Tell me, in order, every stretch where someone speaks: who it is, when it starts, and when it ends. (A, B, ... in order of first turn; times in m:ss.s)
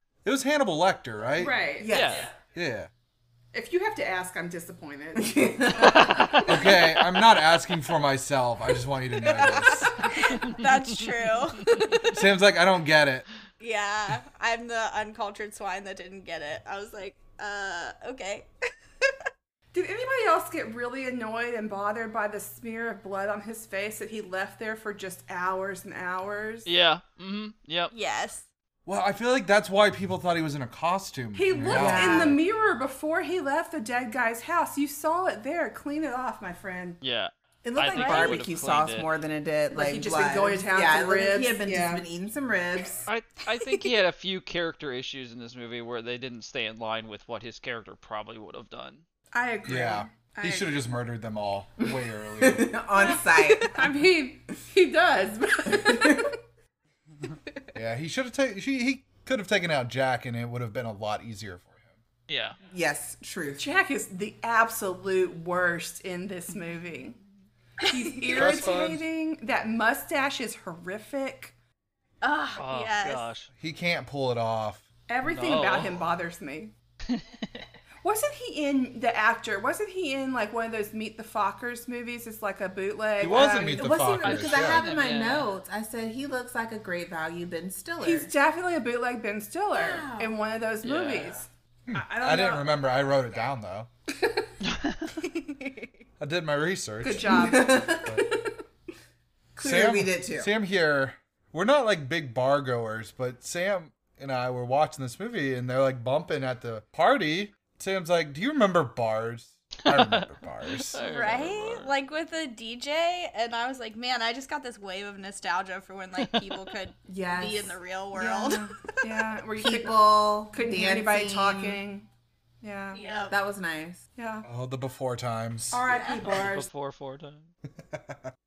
0:00.2-0:01.5 A
0:01.4-0:01.9 B
0:01.8-0:02.3 C
0:01.9-0:02.3 D
0:02.5-0:02.9 A
0:03.5-0:06.8 B
0:05.2-0:06.4 C
0:05.8-0:06.5 D
0:06.4-0:10.1 A
0:09.2-0:12.1 E
0:10.4-0:11.9 D
0:12.0-0:13.2 A
0:13.6-0:18.5 E
0:19.0-0:19.3 E
0:19.7-0:26.7 B
0:26.6-0:27.9 D
0:27.9-0:28.4 E
0:28.9-0:32.4 A
0:31.3-0:37.0 B
0:31.7-0:32.4 C
0:37.0-0:39.1 D
0:37.6-0:43.1 C
0:38.0-0:38.3 E
0:39.7-0:42.0 B
0:43.1-0:49.0 D
0:49.3-0:51.0 B
0:49.6-0:52.7 A
0:52.4-0:53.8 C
0:53.0-0:56.4 B
0:55.7-0:56.3 C
0:57.7-1:01.8 A
1:02.3-1:02.6 D
1:02.7-1:03.6 C
1:03.6-1:07.2 B
1:07.8-1:11.5 B
1:08.3-1:08.9 A
1:08.3-1:09.0 D
1:12.2-1:13.2 E
1:12.6-1:13.5 D
1:13.6-1:14.8 A
1:15.1-1:16.7 B
1:15.2-1:16.1 D
1:17.1-1:17.6 D
1:18.0-1:24.0 B
1:23.2-1:24.9 A
1:23.3-1:28.3 C
1:24.2-1:25.5 D
1:28.0-1:32.7 B
1:29.7-1:30.3 E
1:30.8-1:31.4 D
1:31.9-1:33.9 A
1:34.6-1:35.0 D
1:35.2-1:35.9 E
1:36.2-1:38.3 A
1:37.0-1:38.4 B
1:37.3-1:38.2 C
1:39.6-1:40.5 C
1:39.6-1:51.0 A
1:49.9-1:51.9 D
1:51.0-1:58.7 E
1:56.2-1:56.7 D
1:57.1-2:01.8 C
1:58.9-2:02.1 B
2:02.6-2:03.0 B
2:02.9-2:03.4 E
2:03.3-2:04.0 C
2:04.2-2:04.4 B
2:04.4-2:05.8 A
2:05.7-2:06.7 B
2:05.9-2:06.3 E
2:06.3-2:07.5 D
2:07.8-2:08.3 A